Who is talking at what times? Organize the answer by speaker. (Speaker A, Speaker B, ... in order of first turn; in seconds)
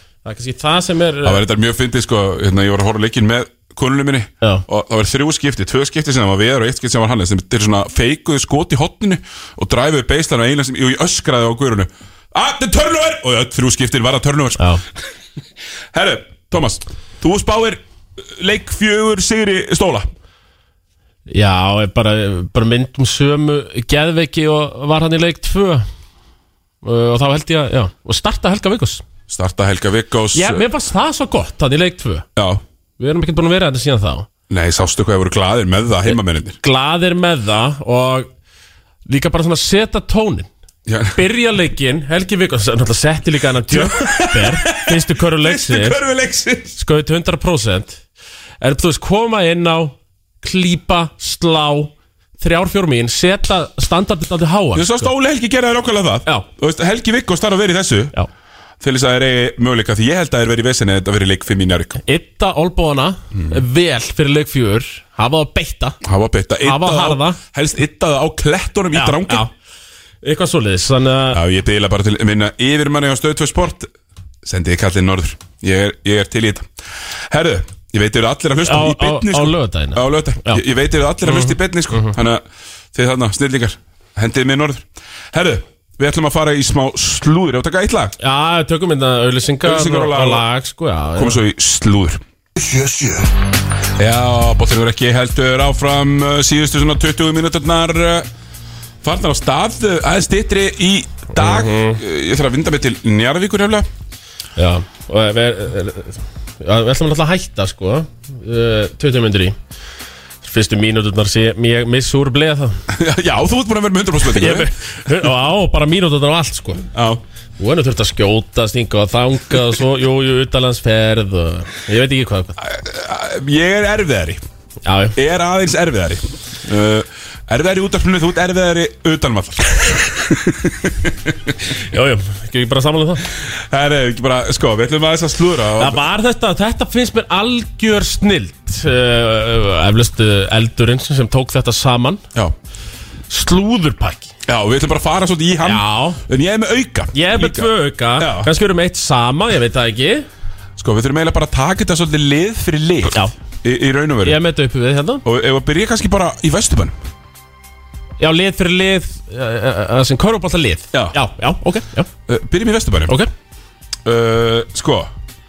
Speaker A: 0.2-1.4, 14.6-14.8, 21.3-25.8, 26.8-29.0, 30.3-32.3, 33.0-34.3, 36.1-38.3, 39.1-40.5, 41.1-46.0, 46.8-48.0, 48.6-55.1, 62.0-66.0, 66.6-67.4, 68.9-69.5, 70.2-71.4, 78.6-80.6, 81.2-82.2, 88.2-91.4, 101.3-102.0, 104.6-109.5, 110.4-112.8, 114.2-116.9, 117.6-122.6, 124.8-125.2, 131.7-133.3, 135.8-142.2, 143.3-144.3, 145.6-146.2, 147.1-150.3, 153.1-153.3, 154.2-155.2, 158.2-162.1
Speaker B: 1.2-15.0, 15.9-20.1, 29.3-30.7, 32.4-32.6, 34.5-36.6, 40.9-41.2, 43.7-46.7, 54.7-58.1, 58.8-62.0, 66.0-69.5, 71.3-73.9, 74.4-76.7, 77.3-82.4, 82.9-88.2, 89.6-90.4, 91.2-92.2, 94.0-98.3, 99.0-103.8, 112.9-114.7, 116.9-117.2, 122.6-124.4, 125.1-131.5, 133.4-136.0, 144.4-148.5, 150.8-154.4, 155.2-157.0, 162.3-163.2, 164.0-165.1